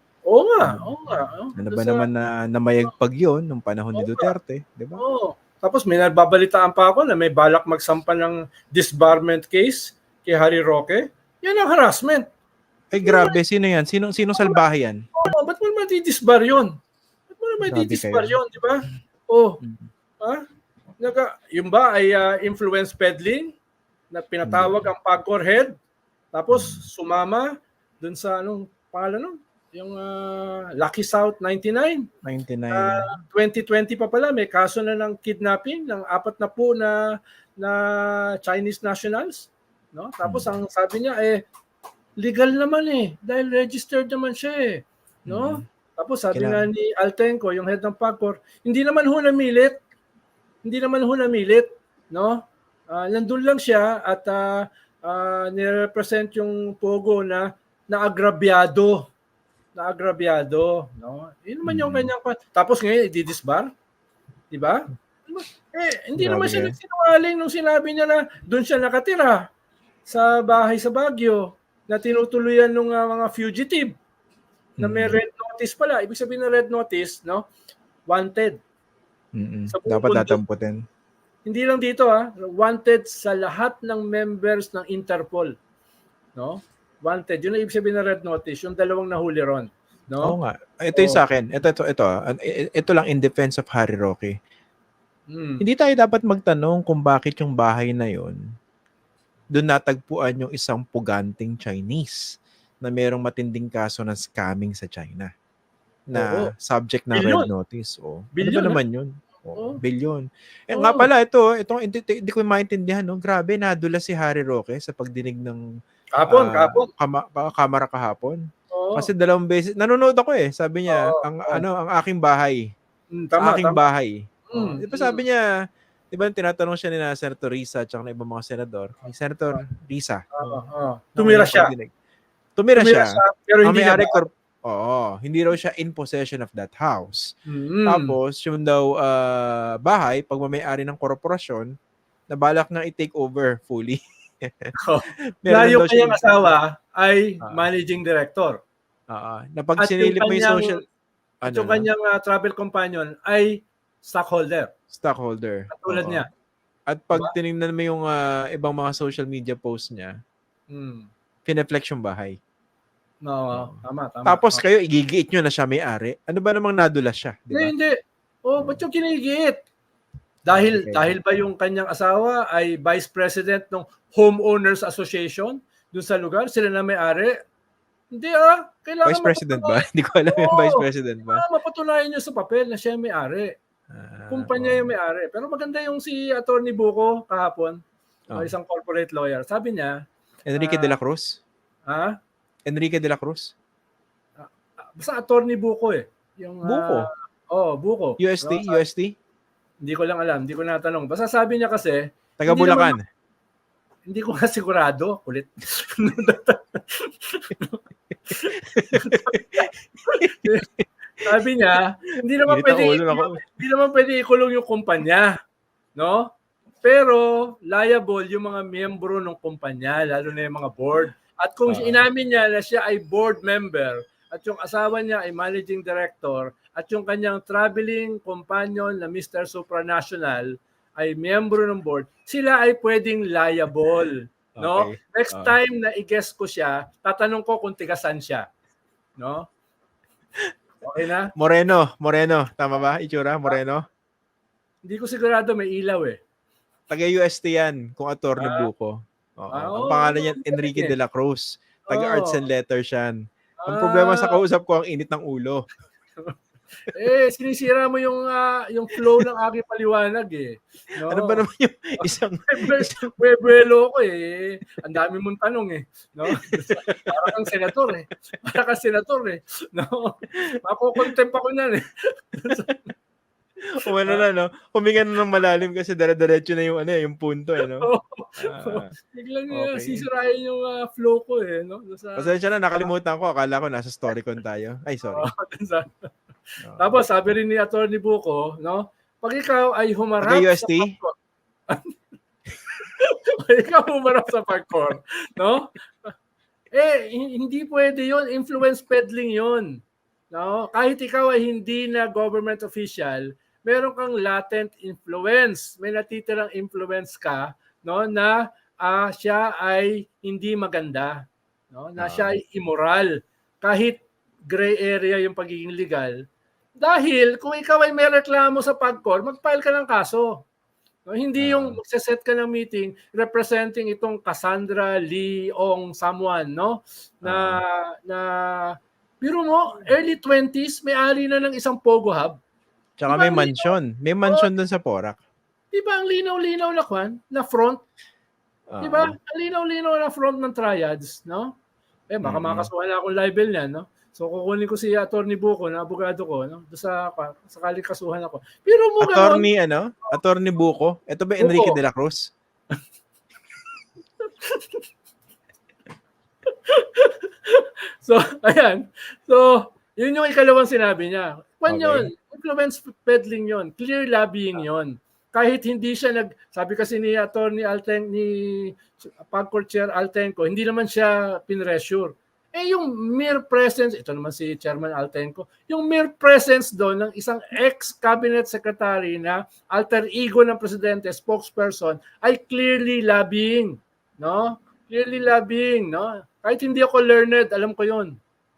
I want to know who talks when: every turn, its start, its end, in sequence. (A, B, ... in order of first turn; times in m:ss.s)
0:00.3-0:02.1 A
0:00.6-0:05.0 B
0:03.9-0:04.3 A
0:05.0-0:12.2 A
0:12.9-0:15.0 B
0:13.0-0:13.4 A
0:15.2-0:16.8 A
0:17.3-0:19.6 A
0:17.6-0:18.4 B
0:21.0-0:23.6 A
0:24.1-0:25.7 A
0:24.4-0:24.8 B
0:26.3-0:32.1 A
0:26.5-0:26.8 B
0:32.2-0:33.1 B
0:32.7-0:41.5 A
0:40.2-0:40.5 B
0:42.2-0:49.8 A
0:45.3-0:45.6 B
0:46.3-0:46.7 B
0:50.6-0:59.1 A
0:59.8-1:03.7 A
1:01.6-1:02.1 B
1:04.5-1:09.4 A
1:06.2-1:06.8 B
1:10.1-1:14.0 A
1:14.8-1:15.2 B
1:14.8-1:17.5 A
1:18.1-1:18.6 A
1:19.4-1:20.8 B
1:19.7-1:20.4 A
1:21.4-1:25.6 A
1:26.4-1:30.4 A
1:30.2-1:34.4 B
1:30.9-1:31.2 A
1:35.3-1:35.6 A
1:35.6-1:38.4 B
1:39.5-1:45.3 B
1:46.1-1:55.6 B
1:46.1-1:46.5 A
1:47.1-1:47.5 A
1:48.4-1:48.8 A
1:49.6-1:49.8 A
1:50.7-1:51.1 A
1:56.1-1:56.9 A
1:56.3-1:58.4 B
1:58.7-1:59.1 A
1:59.0-2:02.6 B
2:00.9-2:01.6 A
2:03.1-2:03.8 A
2:03.4-2:05.4 B
2:04.5-2:05.2 A
2:06.1-2:10.6 B
2:10.4-2:11.7 A
2:11.2-2:11.9 B
2:12.6-2:17.3 B
2:12.8-2:14.2 A
2:17.5-2:18.2 A
2:17.9-2:21.7 B
2:22.3-2:24.7 B
2:24.8-2:28.6 A
2:25.4-2:26.3 B
2:29.1-2:30.8 B
2:29.8-2:30.8 A
2:31.4-2:31.9 B
2:31.5-2:34.7 A
2:34.9-2:36.2 B
2:35.7-2:36.3 A
2:36.9-2:40.1 B
2:40.7-2:41.1 A
2:41.5-2:42.4 B
2:43.2-2:44.6 A
2:44.2-2:47.7 B
2:47.5-2:49.6 A
2:50.5-2:57.3 A
2:50.5-2:51.1 B
2:58.1-3:03.6 A
2:59.0-3:01.4 B
3:03.9-3:04.9 B
3:04.3-3:07.8 A
3:08.4-3:10.0 A
3:10.5-3:11.4 B
3:10.6-3:11.0 A
3:11.9-3:12.2 A
3:12.7-3:13.5 B
3:14.4-3:18.8 A
3:16.6-3:17.1 B
3:18.2-3:19.2 B
3:19.8-3:23.0 A
3:22.4-3:23.0 B
3:24.1-3:30.7 A
3:28.7-3:29.7 B
3:30.2-3:30.5 B
3:31.2-3:35.4 A
3:32.5-3:33.4 B
3:36.0-3:58.5 A
3:41.7-3:42.0 B
3:54.6-3:55.6 B
3:59.2-3:59.5 A
4:00.8-4:01.3 A
4:01.4-4:03.8 B
4:04.8-4:06.2 A
4:06.9-4:13.2 B
4:08.4-4:08.7 A
4:09.5-4:10.9 A
4:11.9-4:12.4 A
4:13.6-4:14.4 A
4:13.7-4:15.7 B
4:16.9-4:21.4 A
4:21.1-4:23.2 B
4:22.0-4:32.8 A
4:26.7-4:27.3 B
4:33.8-4:37.9 B
4:37.8-4:42.3 A
4:38.4-4:38.9 B
4:39.5-4:40.1 B
4:42.2-4:45.3 B
4:45.1-4:46.1 A
4:46.6-4:47.0 B
4:46.8-4:51.1 A
4:50.2-4:51.0 B
4:52.7-4:56.1 A
4:56.7-4:59.8 A
5:00.3-5:16.2 A
5:12.0-5:12.4 B
5:16.8-5:20.5 A
5:21.0-5:32.4 A
5:21.4-5:21.8 B
5:27.2-5:27.6 B
5:33.0-5:35.2 B
5:33.1-5:33.8 A
5:35.7-5:37.8 A
5:38.7-5:39.1 B
5:38.8-5:41.6 A
5:42.1-5:49.5 A
5:42.2-5:42.7 B
5:49.0-5:52.3 B
5:51.4-5:51.8 A
5:54.4-5:54.8 A
5:56.7-6:28.2 A
6:01.7-6:02.1 B